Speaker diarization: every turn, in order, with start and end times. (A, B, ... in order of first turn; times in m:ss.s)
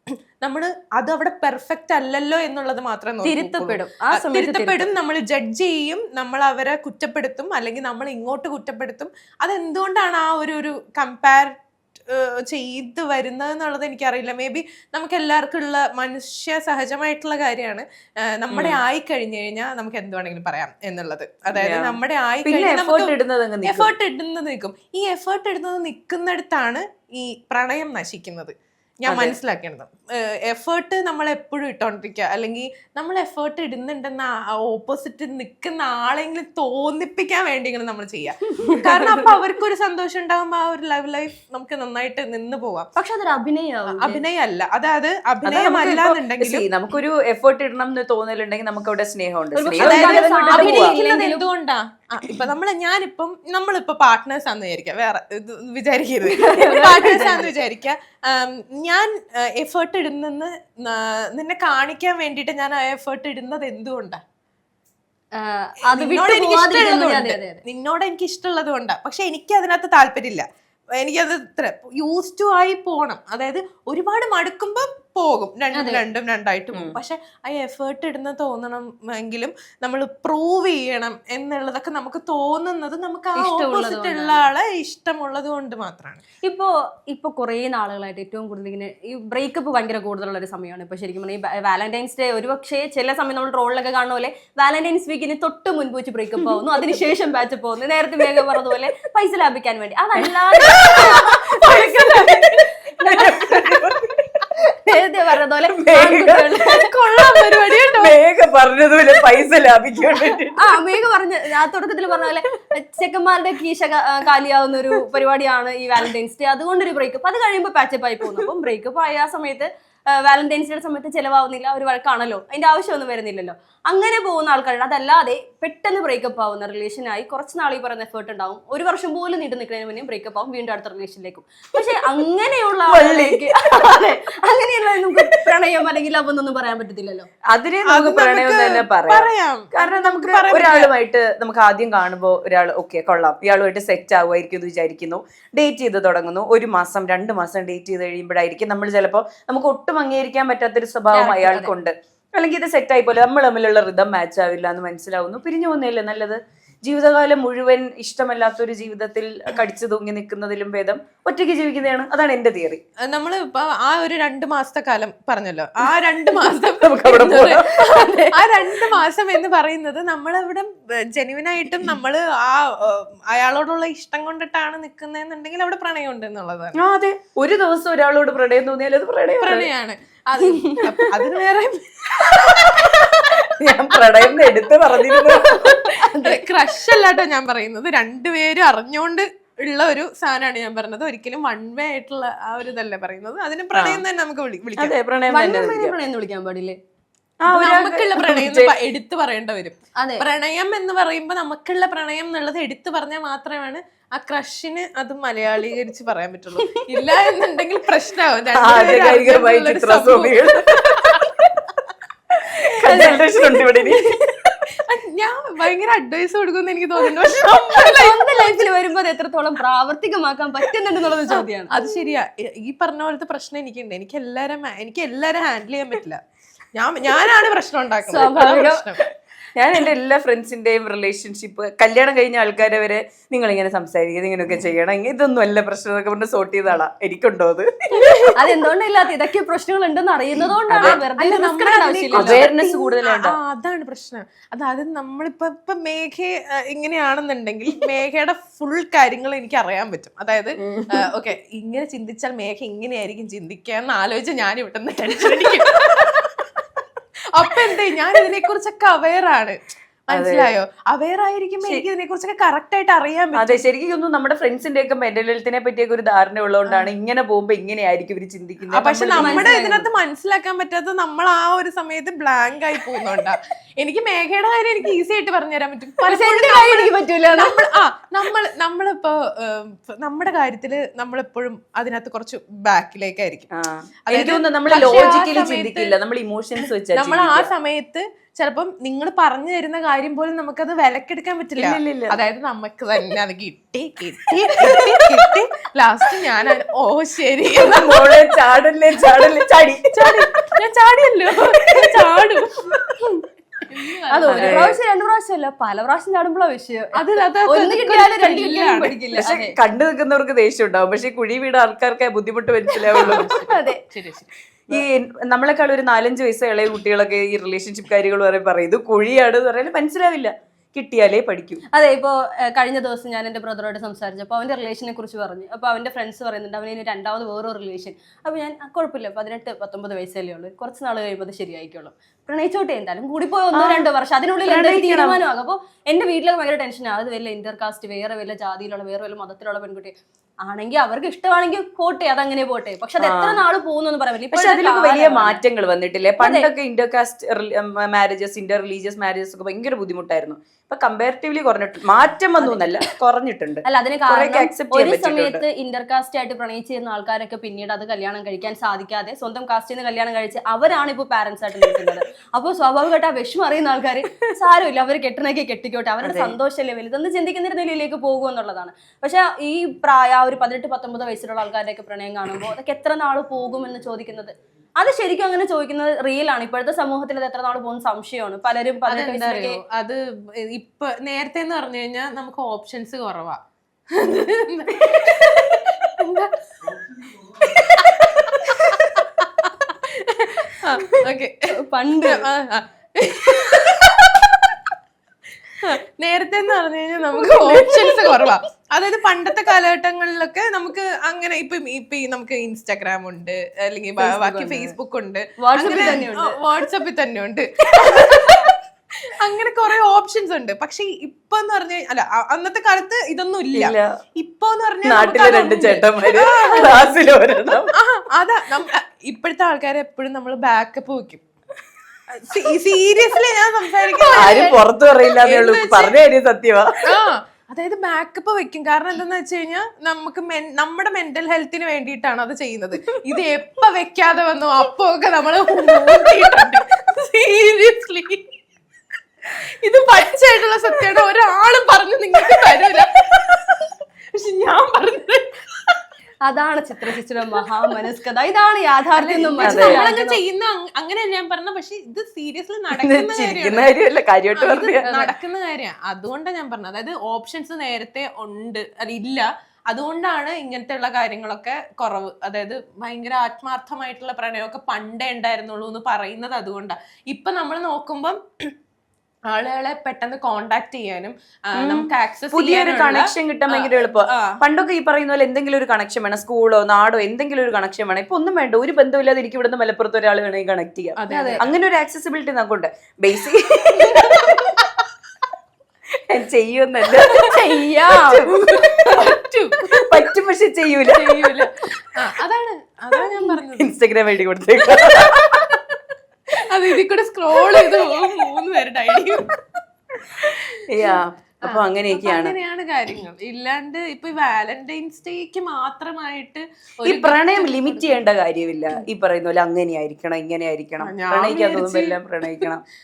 0:00.4-0:42.9 A
0:03.2-0:04.9 B
0:18.5-0:18.8 C
0:21.5-0:23.9 C
0:29.1-0:29.4 C
0:43.0-0:44.2 B
0:43.9-0:46.7 A
0:45.4-0:50.9 C
0:49.6-0:51.4 B
0:49.8-1:04.2 A
0:56.3-0:57.5 B
1:05.4-1:07.6 B
1:05.9-1:26.2 A
1:15.7-1:16.0 B
1:16.7-1:17.0 C
1:23.4-1:24.5 B
1:26.4-1:42.6 B
1:40.2-1:44.3 C
1:41.7-1:42.2 A
1:44.7-1:46.9 B
1:45.7-1:46.6 C
1:46.7-1:48.2 A
1:47.4-1:50.7 C
1:50.6-2:17.3 B
2:12.9-2:14.2 C
2:17.5-2:42.8 C
2:17.9-2:20.9 A
2:31.1-2:31.7 B
2:43.1-2:56.8 A
2:46.8-2:47.7 C
2:47.8-2:48.4 B
2:56.8-2:59.7 C
2:59.4-3:04.5 A
3:00.6-3:00.9 B
3:02.2-3:05.8 C
3:05.4-3:06.4 B
3:06.2-3:14.9 A
3:13.7-3:14.0 C
3:14.8-3:16.0 C
3:15.3-3:16.8 B
3:17.4-3:18.7 C
3:17.5-3:31.2 A
3:20.0-3:20.2 B
3:28.6-3:31.4 C
3:32.3-3:34.5 C
3:32.8-3:33.9 B
3:32.8-3:33.2 A
3:34.8-3:38.6 A
3:37.8-3:41.8 B
3:41.7-3:46.2 A
3:46.8-3:49.0 A
3:48.1-3:48.8 B
3:48.2-3:48.7 C
3:49.6-3:58.3 C
3:58.0-3:58.3 A
3:58.3-4:02.5 B
4:00.7-4:01.0 C
4:00.8-4:16.6 A
4:02.1-4:03.4 C
4:10.6-4:11.1 C
4:17.3-4:23.6 A
4:20.1-4:20.5 C
4:23.4-4:29.6 C
4:28.7-4:43.5 A
4:29.2-4:29.9 B
4:36.1-4:37.5 B
4:43.5-4:47.5 C
4:44.1-4:45.9 A
4:46.9-4:58.4 A
4:51.6-4:52.2 C
4:57.6-5:00.3 C
4:59.9-5:02.8 A
5:01.5-5:02.1 C
5:03.7-5:04.7 A
5:04.1-5:09.6 B
5:04.3-5:04.8 C
5:07.0-5:09.0 A
5:09.2-5:13.3 C
5:12.9-5:14.8 A
5:13.0-5:13.8 B
5:14.7-5:21.6 C
5:21.7-5:45.4 B
5:33.5-5:33.9 C
5:34.5-5:35.2 C
5:43.0-5:43.4 C
5:44.3-5:55.4 C
5:46.2-5:46.5 B
5:52.4-5:52.9 B
5:53.6-6:19.6 B
6:06.0-6:06.4 C
6:18.9-6:23.4 A
6:23.9-6:31.5 A
6:31.5-6:32.3 B
6:32.0-6:34.6 A
6:35.5-6:57.0 A
6:37.2-6:38.2 B
6:44.0-6:44.7 B
6:45.4-6:46.4 B
6:47.8-6:48.4 C
6:53.5-6:54.0 C
6:54.8-6:57.7 C
6:57.7-7:01.2 A
7:02.1-7:04.6 A
7:04.1-7:06.8 C
7:05.2-7:06.0 A
7:06.8-7:18.3 A
7:19.4-7:25.8 A
7:26.3-7:30.2 B
7:29.0-7:33.7 A
7:29.4-7:29.8 C
7:32.7-7:35.1 C
7:34.4-7:48.5 A
7:49.3-7:54.4 A
7:51.6-8:04.4 C
8:01.0-8:01.5 A
8:01.1-8:01.4 B
8:04.0-8:04.6 A
8:06.1-8:07.4 C
8:07.0-8:07.3 A
8:07.3-8:08.2 B
8:07.9-8:09.1 C
8:08.2-8:10.0 A
8:09.7-8:11.4 C
8:10.9-8:13.7 A
8:13.6-8:15.5 C
8:15.5-8:15.8 A
8:16.4-8:19.4 A
8:20.2-8:22.4 C
8:20.8-8:28.0 A
8:26.8-8:32.6 C
8:30.8-8:32.5 A